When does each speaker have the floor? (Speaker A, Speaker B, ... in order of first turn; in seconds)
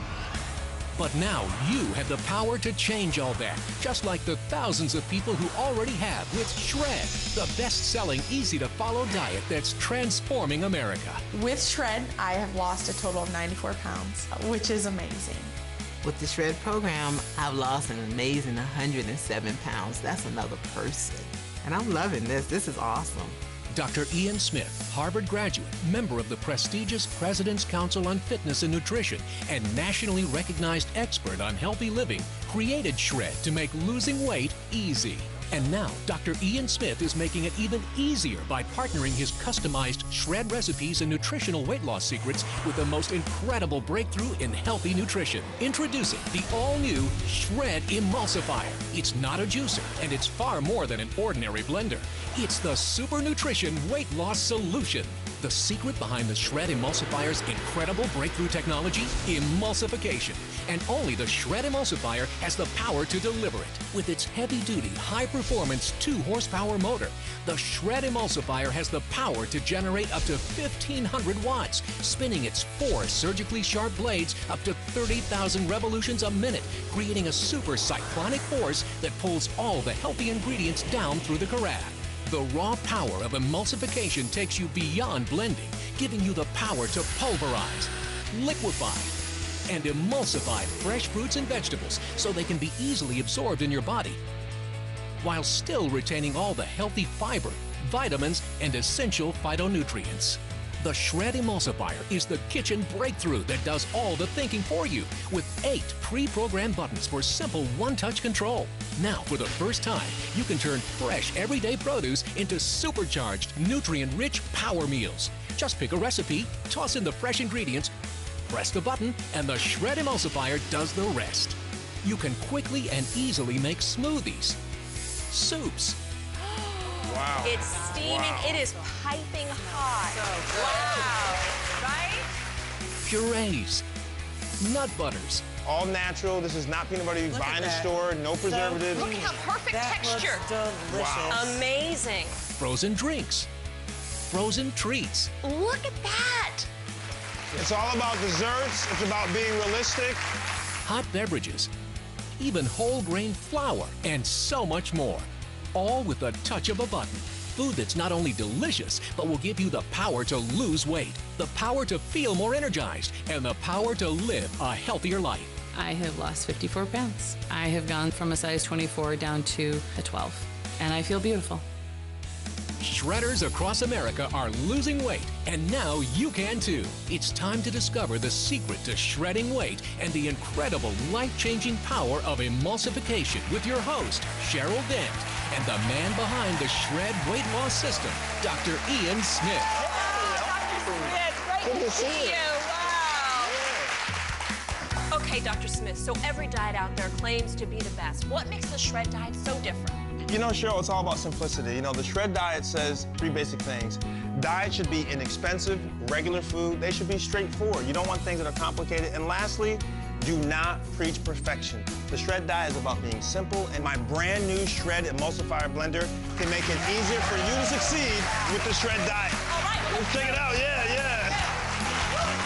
Speaker A: 1.0-11.2, 23.7-89.2, 89.7-94.2, 95.2-117.9, 118.5-124.6, 125.3-126.0, 133.0-133.8, 134.6-135.4, 142.5-143.5, 144.3-145.3, 150.8-151.7, 152.4-165.6, 172.8-189.8
Speaker B: 11.3-15.5
Speaker C: 16.0-23.4
Speaker D: 126.4-132.3, 138.8-140.5, 141.3-142.4, 145.4-146.7, 189.8-193.6, 195.1-200.1, 218.4-218.8, 219.4-221.3
Speaker E: 127.0-128.7, 135.7-139.2, 140.9-141.6, 147.5-150.2, 189.9-192.6, 193.3-193.8, 200.2-221.4
Speaker F: 127.6-128.1, 129.6-131.3, 137.3-141.6
Speaker G: 165.7-171.6